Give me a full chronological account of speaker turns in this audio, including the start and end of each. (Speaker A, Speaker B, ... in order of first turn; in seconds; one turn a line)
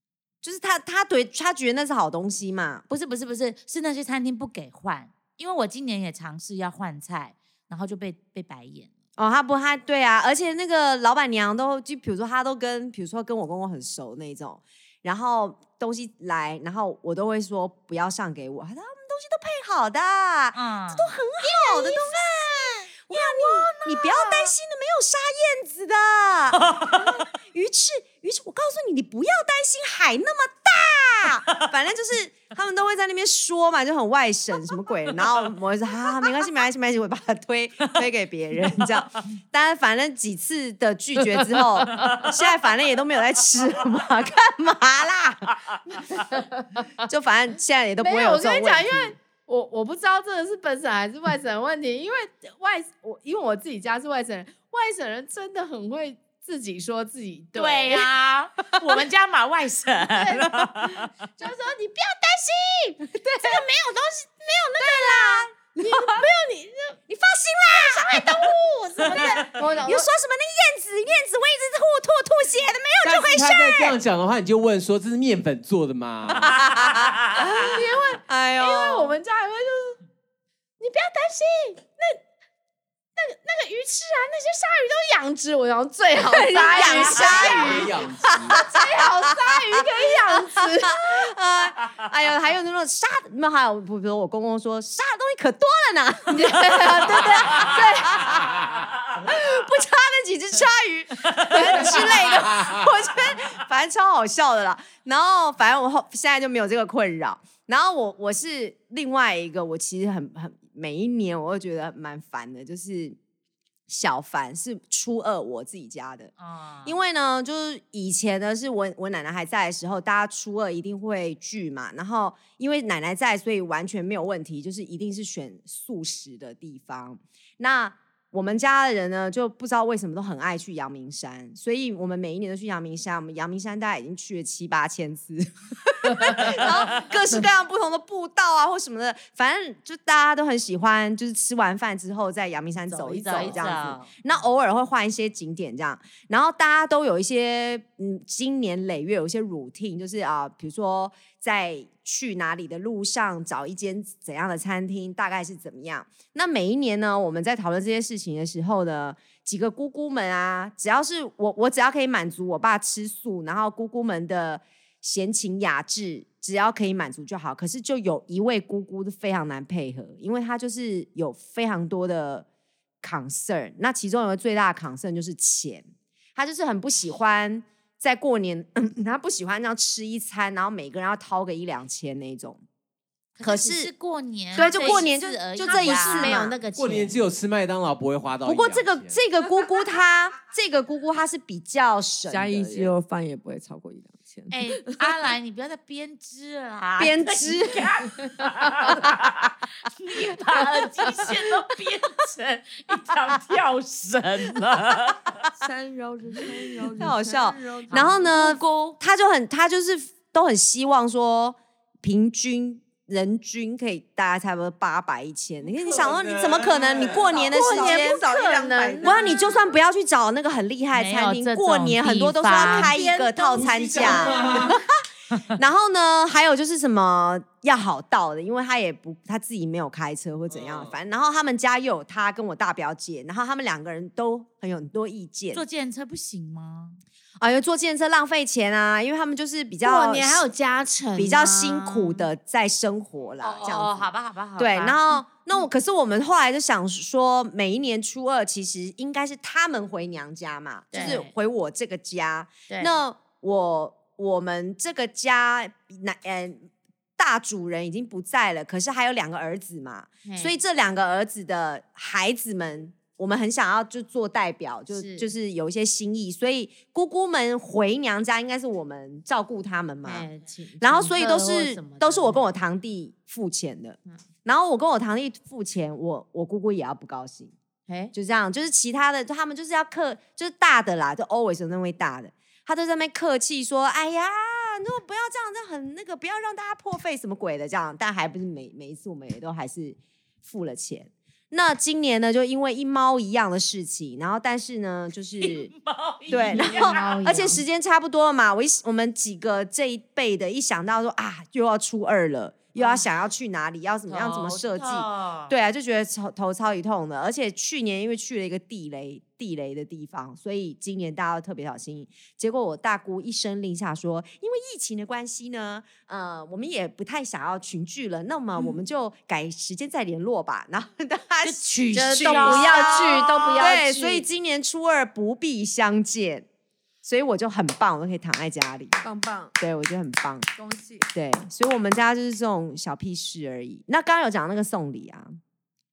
Speaker A: 0.4-2.8
Speaker B: 2.9-8.9
Speaker A: 9.2-27.0
Speaker B: 20.6-21.2
Speaker C: 21.4-24.4
Speaker B: 26.6-27.2
Speaker A: 27.5-46.1
Speaker B: 42.0-42.3
Speaker C: 46.3-46.9
Speaker A: 47.1-49.1
Speaker C: 48.0-58.1
Speaker B: 57.5-61.1
Speaker C: 60.0-67.0
Speaker A: 63.3-63.6
Speaker A: 64.8-66.2
Speaker A: 67.1-74.0
Speaker C: 67.7-70.1
Speaker D: 73.0-76.7
Speaker A: 76.4-77.1
Speaker C: 77.3-80.0
Speaker A: 78.2-79.2
Speaker C: 80.8-82.2
Speaker C: 83.2-91.2
Speaker A: 86.3-87.9
Speaker D: 86.8-88.6
Speaker A: 88.5-89.0
Speaker A: 90.3-98.6
Speaker C: 96.3-98.2
Speaker D: 98.5-98.8
Speaker A: 99.2-113.2
Speaker C: 101.5-102.0
Speaker D: 101.6-102.9
Speaker A: 113.9-116.3
Speaker B: 116.4-117.0
Speaker A: 116.8-172.5
Speaker C: 142.9-143.9
Speaker B: 143.0-144.2
Speaker A: 173.0-182.6
Speaker B: 183.4-186.5
Speaker A: 183.4-183.9
Speaker A: 184.6-186.6
Speaker C: 184.6-187.2
Speaker D: 186.7-189.2
Speaker A: 188.4-192.9
Speaker E: 192.3-195.1
Speaker B: 194.5-205.5
Speaker A: 197.0-197.9
Speaker E: 205.6-208.6
Speaker A: 207.0-218.2
Speaker B: 207.9-208.2
Speaker D: 215.8-217.4
Speaker E: 217.3-219.5
Speaker C: 217.4-219.5
Speaker A: 219.0-224.9
Speaker B: 220.9-222.9
Speaker C: 221.2-223.3
Speaker D: 223.5-224.8
Speaker E: 224.0-224.3
Speaker A: 225.6-235.6
Speaker D: 230.5-231.0
Speaker B: 235.5-237.0
Speaker A: 237.4-240.4
Speaker C: 239.8-242.3
Speaker A: 241.2-270.3
Speaker B: 243.4-245.0
Speaker C: 250.9-251.3
Speaker C: 252.7-253.0
Speaker C: 260.2-260.6
Speaker C: 264.9-265.3
Speaker C: 270.1-272.5
Speaker A: 270.8-277.6
Speaker C: 277.9-278.1
Speaker A: 278.1-295.7
Speaker B: 295.4-297.2
Speaker A: 296.3-326.5
Speaker C: 296.4-297.6
Speaker B: 304.1-305.6
Speaker B: 321.4-323.6
Speaker C: 321.9-324.3
Speaker A: 327.0-329.0
Speaker E: 329.0-329.6
Speaker A: 329.6-330.5
Speaker E: 330.6-331.1
Speaker A: 331.1-335.4